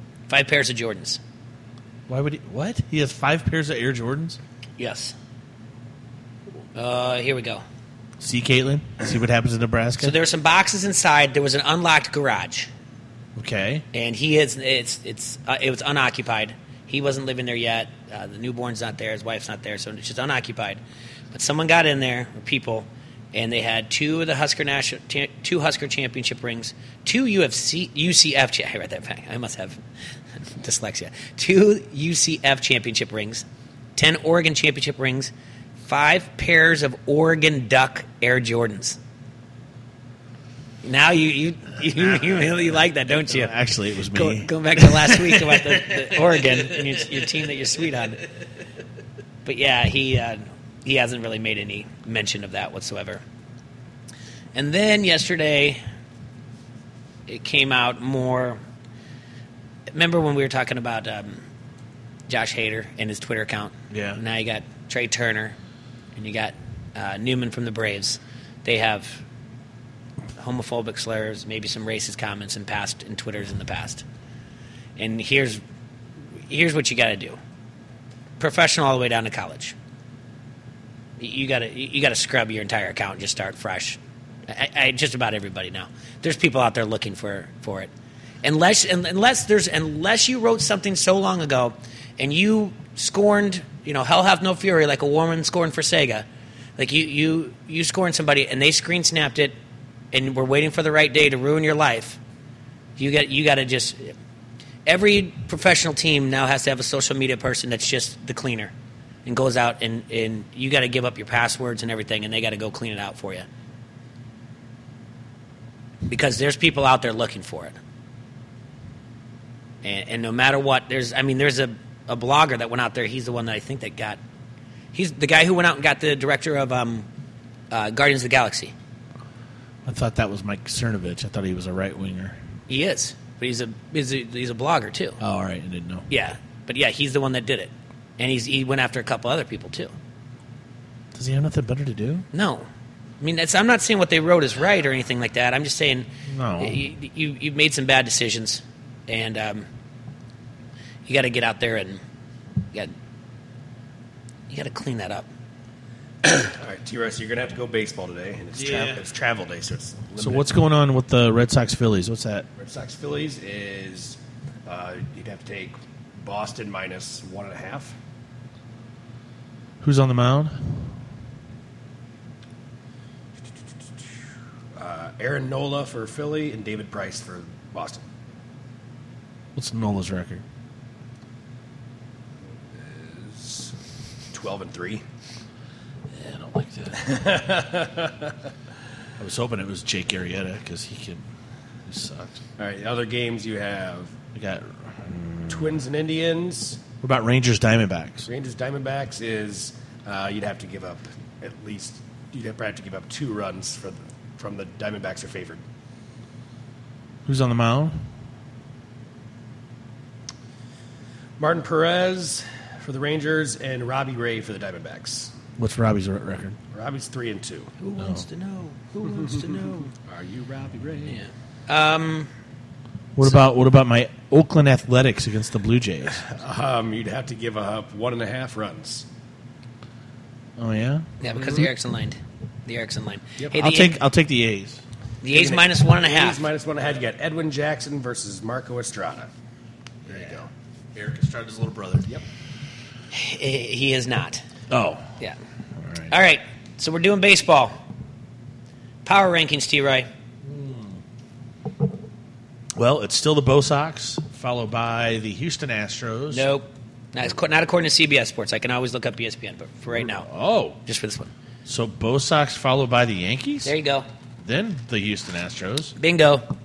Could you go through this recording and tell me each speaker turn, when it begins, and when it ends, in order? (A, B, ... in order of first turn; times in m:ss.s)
0:00.3-0:01.2 A
0:02.1-0:04.4 B
0:04.8-0:05.2 A
0:06.8-0:07.6 A
0:08.2-0:10.2 B
0:10.0-0:12.7 A
0:13.4-0:13.8 B
0:13.9-0:29.8 A
0:30.4-0:35.3 A
0:35.9-0:39.0 A
0:40.8-0:43.5 A
0:42.1-0:42.7 B
0:43.3-0:46.8 B
0:44.1-0:48.2 A
0:49.4-0:53.2 A
0:54.6-0:55.8 A
0:57.3-0:58.6 A
0:59.9-1:01.5 A
1:02.3-1:05.6 A
1:03.9-1:04.2 B
1:06.2-1:09.2 A
1:10.4-1:14.0 A
1:15.0-1:15.6 A
1:16.5-1:17.4 A
1:18.4-1:19.8 A
1:21.2-1:27.9 A
1:28.4-1:36.3 A
1:36.8-1:39.6 A
1:40.1-1:42.2 A
1:43.0-1:44.2 A
1:44.9-1:48.7 A
1:49.2-1:53.5 A
1:56.1-1:57.8 A
1:59.8-2:04.2 A
2:04.9-2:07.1 A
2:07.7-2:08.7 A
2:09.9-2:12.4 B
2:12.7-2:15.2 A
2:15.2-2:16.1 B
2:16.1-2:20.0 A
2:21.1-2:22.3 B
2:22.3-2:22.7 A
2:23.2-2:29.7 A
2:26.3-2:26.8 B
2:31.1-2:32.0 A
2:34.5-2:35.3 A
2:36.2-2:40.5 C
2:38.6-2:39.0 B
2:40.2-2:42.5 B
2:42.6-2:48.0 C
2:49.8-2:50.9 B
2:54.8-2:58.1 C
2:59.6-3:00.4 B
3:02.7-3:03.8 C
3:04.3-3:05.0 C
3:06.1-3:07.5 B
3:07.0-3:08.4 C
3:09.2-3:11.2 B
3:11.9-3:12.4 B
3:12.6-3:14.2 C
3:14.4-3:15.8 B
3:15.5-3:16.8 C
3:17.0-3:18.3 B
3:18.3-3:25.6 C
3:27.3-3:28.0 B
3:31.4-3:35.4 C
3:35.6-3:36.6 B
3:36.7-3:37.8 C
3:37.8-3:39.9 A
3:38.0-3:38.3 B
3:39.0-3:41.2 C
3:41.1-3:42.3 A
3:43.2-3:46.3 B
3:46.2-3:49.1 C
3:50.6-3:51.1 B
3:51.2-3:54.0 A
3:53.5-3:54.8 B
3:55.2-3:56.4 A
3:55.3-3:59.3 C
4:00.1-4:00.5 C
4:01.0-4:02.1 B
4:03.1-4:04.4 A
4:04.7-4:05.1 B
4:05.8-4:06.1 B
4:06.1-4:07.8 A
4:09.0-4:10.1 A
4:10.4-4:11.0 B
4:12.8-4:16.5 B
4:16.3-4:20.3 A
4:20.0-4:20.8 B
4:20.8-4:21.3 A
4:21.6-4:23.8 B
4:23.6-4:24.1 A
4:24.4-4:26.0 B
4:26.0-4:26.5 A